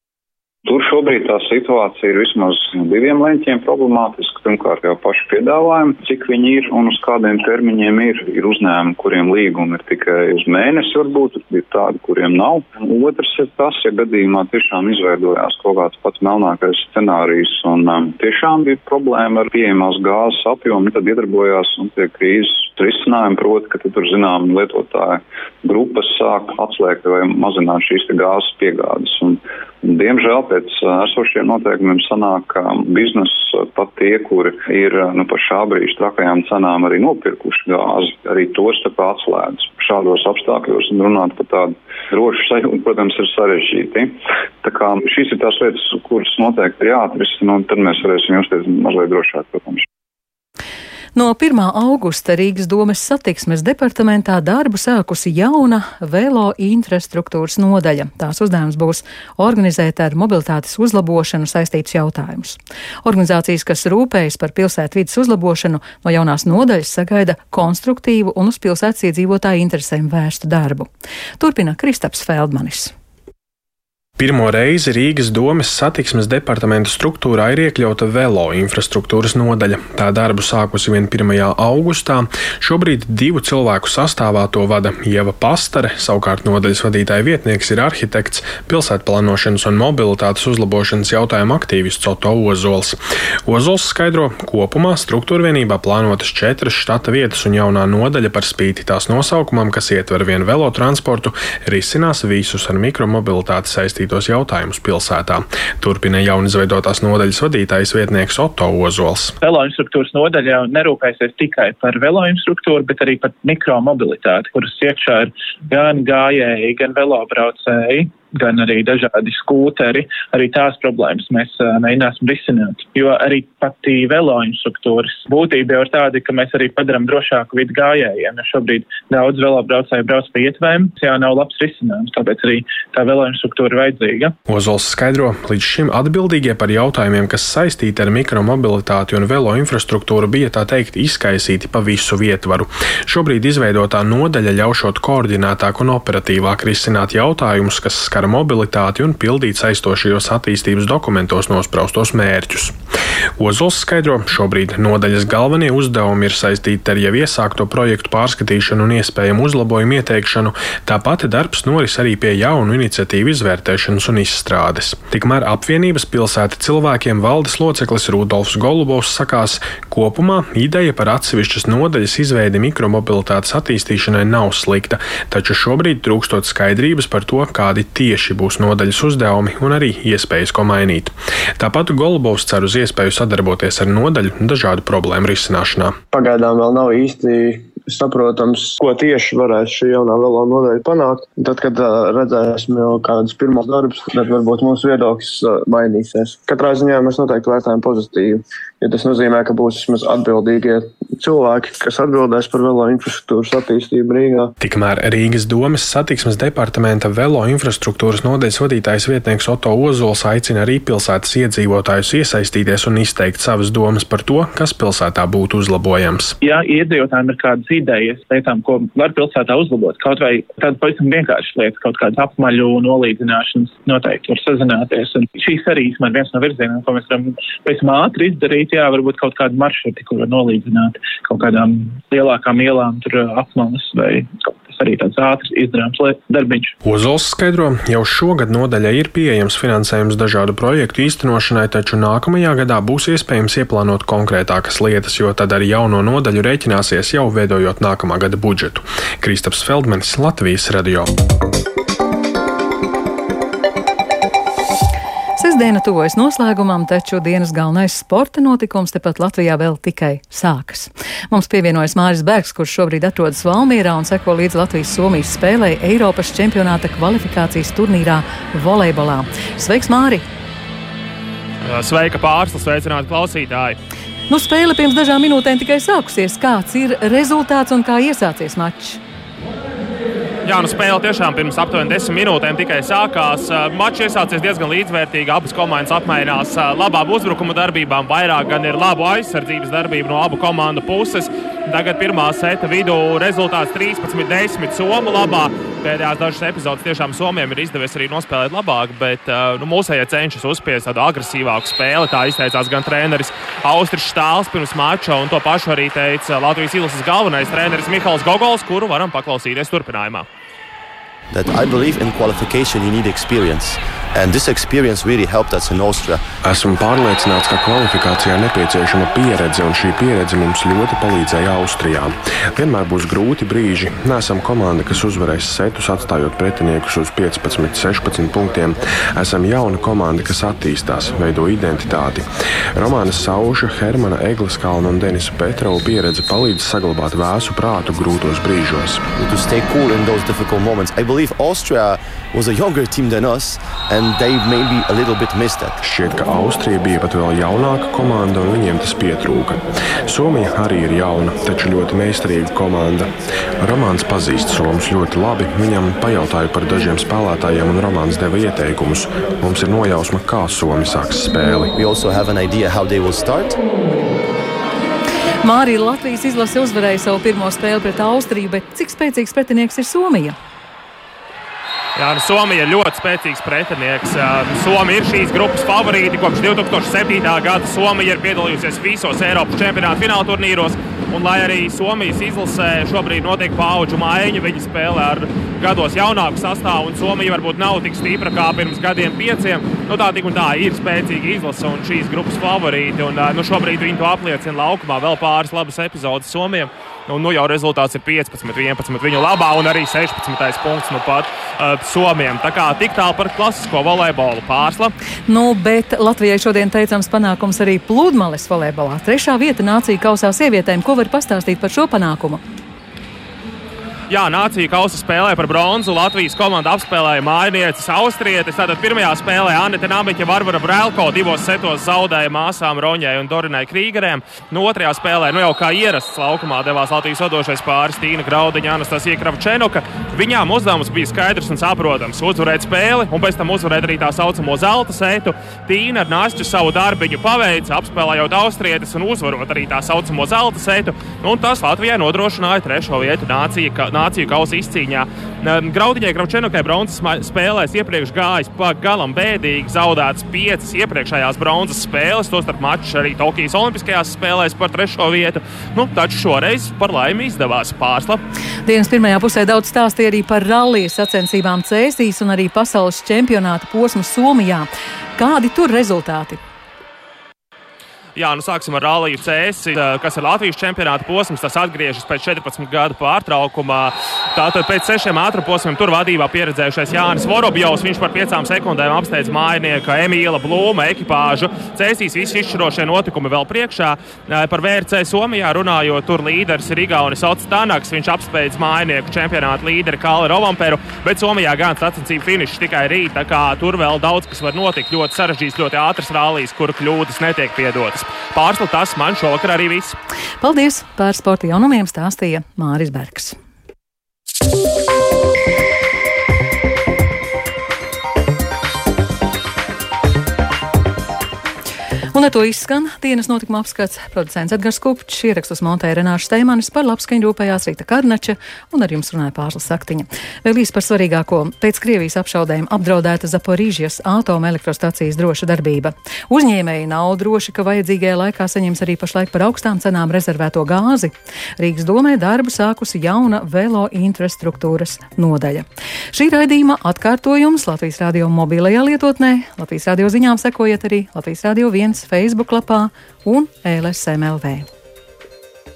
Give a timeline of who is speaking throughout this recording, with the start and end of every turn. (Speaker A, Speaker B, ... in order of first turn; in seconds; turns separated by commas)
Speaker A: 0.6-49.8, Speaker B: 51.1-70.9, Speaker B: 71.4-72.9, Speaker C: 74.2-109.3, Speaker D: 109.4-134.3, Speaker C: 134.5-152.7, Speaker C: 153.4-185.9, Speaker E: 186.1-204.5, Speaker C: 204.6-216.4, Speaker D: 216.4-236.7, Speaker C: 236.8-251.1, Speaker B: 255.4-270.2, Speaker F: 271.6-273.8, Speaker B: 274.3-279.0, Speaker F: 280.4-310.2, Speaker G: 311.3-316.2, Speaker C: 316.4-339.0, Speaker G: 339.1-345.8, Speaker C: 345.8-361.7, Speaker G: 361.8-363.6, Speaker B: 365.4-370.3, Speaker F: 371.9-404.9, Speaker B: 405.3-412.4, Speaker F: 414.1-458.2, Speaker B: 458.6-466.4, Speaker F: 468.1-499.9, Speaker B: 500.4-503.3, Speaker B: 512.1-544.6